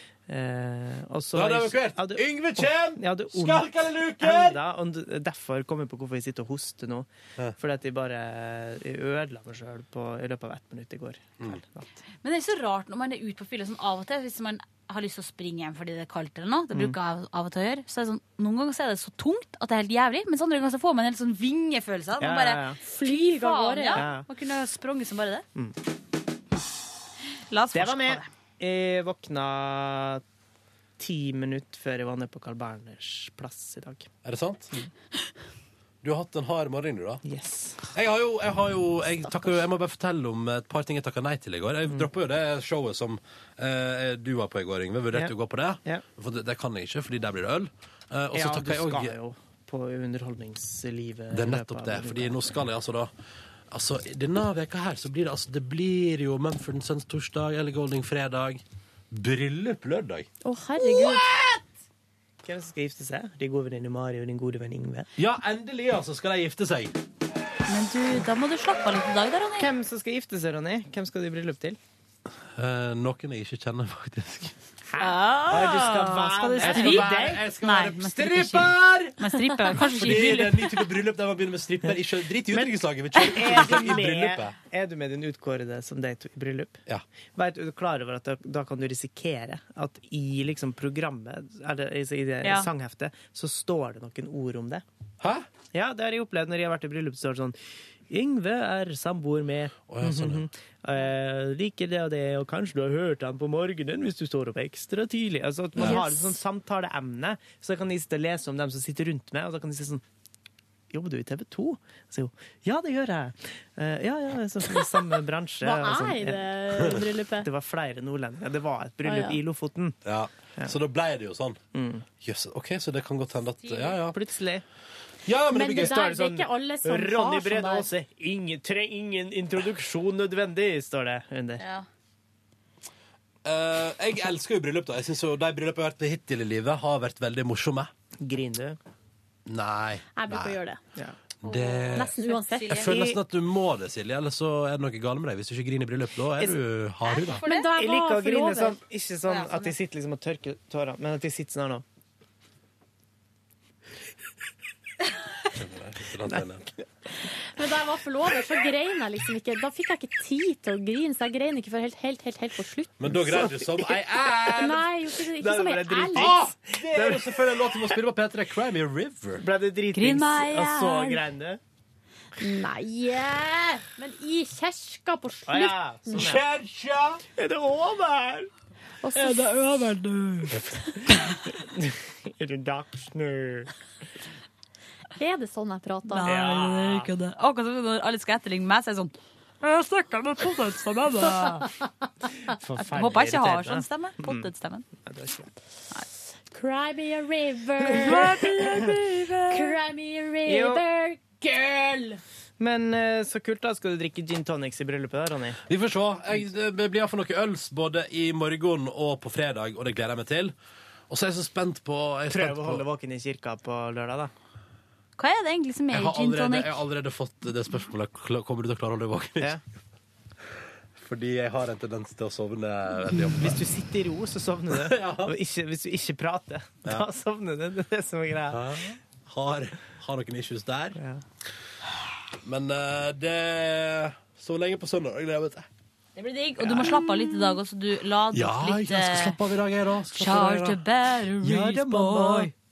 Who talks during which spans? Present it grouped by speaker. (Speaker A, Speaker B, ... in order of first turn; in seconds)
Speaker A: 0.3-11.9, 22.2-22.8, 23.9-24.2, 27.7-30.2, 31.0-34.1, 37.2-37.8, 48.3-52.6, 62.4-65.1, 69.6-71.8, 74.9-77.4, 82.5-86.8, 87.3-94.8, 95.7-97.6, 98.1-110.0, 110.9-116.9, 117.4-120.0, 121.7-122.0, 124.1-124.6, 125.7-131.6, 138.2-138.8, 147.7-151.8, 156.3-156.8, 163.1-163.9, 165.3-168.0, 169.4-171.6, 175.5-176.4, 177.3-178.5, 179.3-179.7, 181.1-183.7, 186.2-187.1, 192.5-194.5, 195.0-195.5, 197.9-198.8, 200.4-200.8, 202.6-205.6, 212.3-214.3, 223.3-228.8, 230.9-231.2, 241.5-242.5
Speaker B: 1.3-4.6, 34.2-34.7, 36.0-37.2, 37.9-49.1, 51.3-53.1, 53.7-60.3, 65.2-66.9, 72.6-74.5, 75.5-84.5, 95.2-95.5, 99.9-100.5, 120.0-121.6, 122.2-124.2, 125.2-126.0, 133.4-137.9, 139.5-140.6, 141.4-142.1, 142.7-147.4, 155.5-156.6, 163.0-164.8, 166.1-169.4, 176.1-177.2, 205.7-210.5, 211.1-212.8, 215.9-219.6, 221.0-223.6, 224.7-225.3, 228.5-231.0, 232.4-235.7, 236.6-237.2, 238.3-240.9, 241.4-242.4
Speaker C: 12.2-25.4, 27.5-28.3, 67.7-69.7, 75.0-80.7, 92.4-92.7, 123.6-124.0, 131.6-131.8, 141.4-143.0, 147.0-147.7, 149.2-149.8, 169.9-171.2, 179.3-180.5, 186.1-191.7, 192.8-194.8, 198.1-199.7, 215.2-216.7, 236.2-239.4, 240.1-242.5
Speaker D: 22.8-24.0, 60.4-61.3, 105.8-106.4, 115.6-117.5, 119.0-119.4, 125.5-127.9, 140.2-140.8, 141.9-143.1, 147.4-148.8, 157.3-162.9, 164.5-166.3, 172.4-176.2, 179.0-179.5, 185.2-186.3, 196.5-198.7, 199.5-202.2